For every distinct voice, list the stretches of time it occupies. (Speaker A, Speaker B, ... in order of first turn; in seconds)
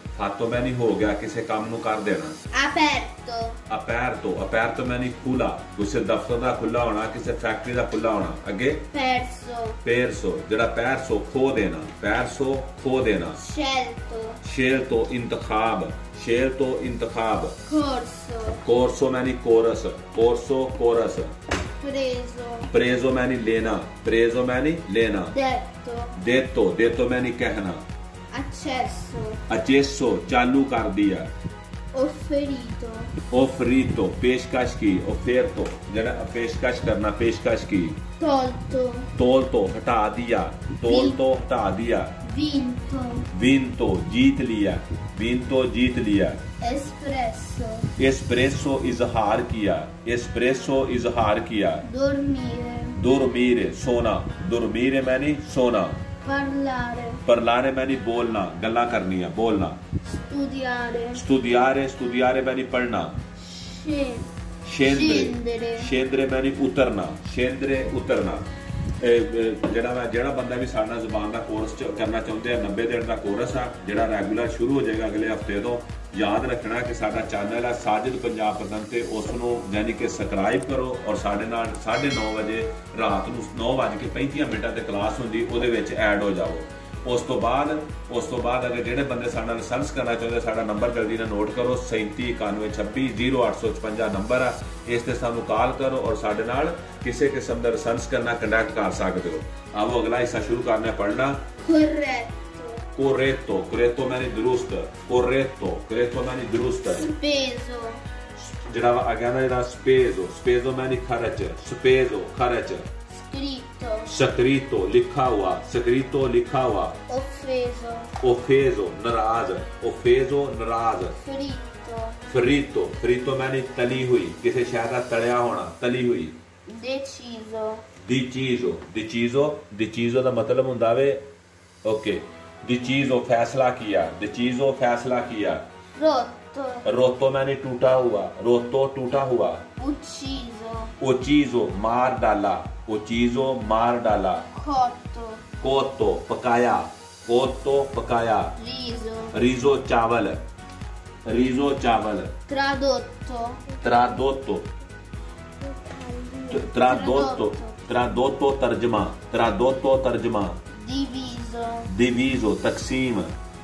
Speaker A: 0.1-2.4, 3.7-8.9, 9.8-13.4, 14.4-17.6, 18.6-21.3, 22.7-25.3, 26.2-27.8, 29.5-31.3, 33.3-38.0, 39.1-42.1, 43.3-46.4, 48.0-51.8, 53.0-56.0, 57.2-59.8, 61.1-63.1, 64.6-68.5, 69.0-101.5, 102.9-107.1, 108.4-112.9, 114.0-117.0, 118.2-121.2, 122.3-126.3, 128.0-131.2, 131.8-135.6, 136.8-139.6, 141.0-144.4, 145.6-148.5, 149.3-150.4, 151.2-152.3, 153.8-154.7, 156.5-160.6, 161.9-163.3
Speaker B: 2.5-3.6, 8.9-9.8, 13.4-14.4, 17.6-18.6, 21.7-22.7, 25.3-26.2, 28.3-29.4, 31.9-33.1, 38.2-39.1, 40.8-41.2, 42.2-43.3, 46.6-47.9, 51.8-53.0, 56.2-57.2, 60.0-61.2, 63.4-64.3, 64.8-65.9, 101.6-102.8, 107.0-108.0, 113.1-114.1, 117.1-118.1, 121.2-122.2, 126.7-127.8, 135.9-136.8, 139.8-140.9, 144.5-145.4, 148.6-149.4, 152.5-154.2, 155.6-157.8, 160.7-161.9